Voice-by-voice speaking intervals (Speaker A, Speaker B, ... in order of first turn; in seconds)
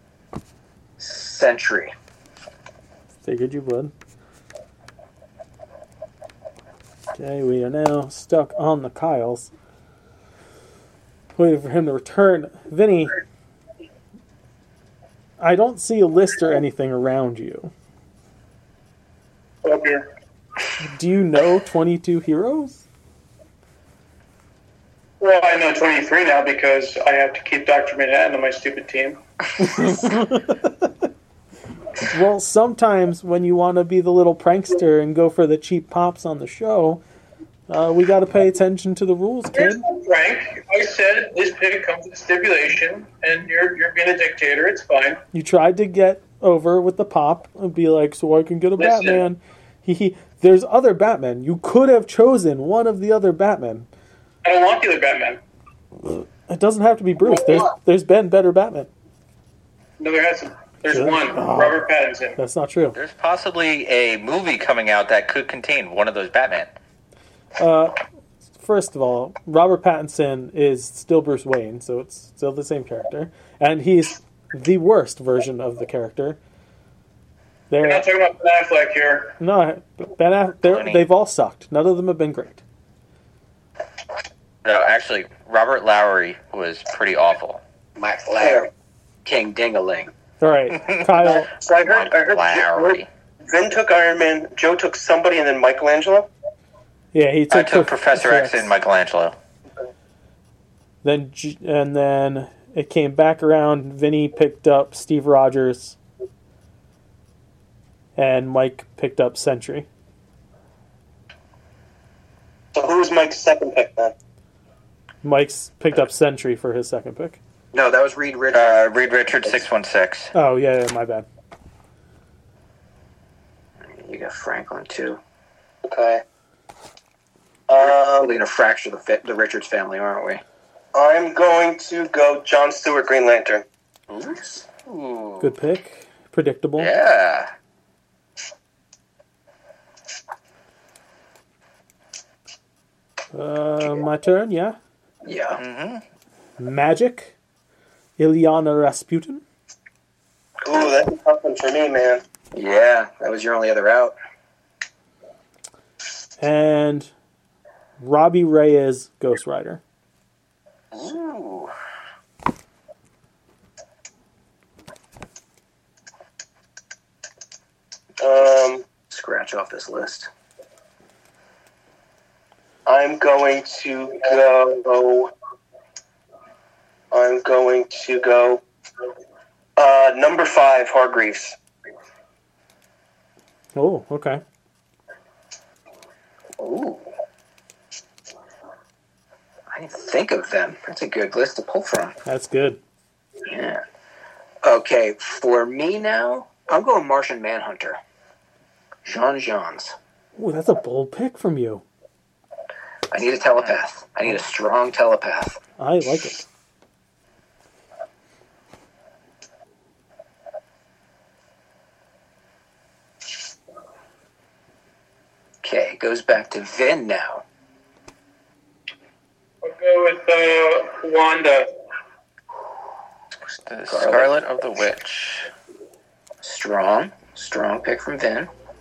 Speaker A: 1.0-1.9, 88.0-88.7, 89.2-90.1, 117.7-119.6, 123.8-125.2, 127.8-130.4, 134.1-134.6, 145.2-145.6, 152.5-154.1, 169.1-170.3, 186.6-187.1, 189.7-192.2, 193.4-193.8, 194.6-198.0, 199.0-199.9, 203.1-205.6, 215.6-217.4, 223.9-224.3, 226.4-228.5
Speaker B: 3.2-3.9, 7.1-9.5, 11.3-13.2, 15.4-17.7, 20.8-22.8, 29.6-30.9, 32.1-37.0, 37.7-39.8, 45.3-53.9, 56.0-58.9, 60.9-61.8, 62.4-63.0, 67.6-68.0, 68.6-76.4, 77.7-78.0, 79.4-82.6, 90.4-91.5, 97.1-98.7, 101.0-106.0, 108.2-109.9, 115.2-117.4, 120.3-121.2, 135.4-136.9, 143.3-144.8, 146.6-147.3, 148.2-149.4, 156.4-157.1, 158.0-159.8, 183.7-184.4, 192.2-192.8, 200.4-201.8, 205.8-206.4
Speaker C: 19.6-20.1, 25.2-29.2, 39.5-45.2, 48.8-49.2, 54.4-55.4, 60.0-62.4, 77.8-79.3, 219.6-221.7
Speaker D: 62.9-66.7, 80.6-81.0, 84.6-87.6, 91.8-93.1, 97.5-99.3, 118.5-120.3, 134.8-135.5, 136.8-137.5, 145.6-146.0, 161.0-161.7, 223.4-225.5
Speaker E: 88.4-88.7, 91.4-96.3, 112.7-114.1, 125.8-126.2, 127.7-128.3, 130.9-133.6, 150.6-152.2, 168.2-168.8, 172.8-175.3, 177.1-178.6, 179.8-181.6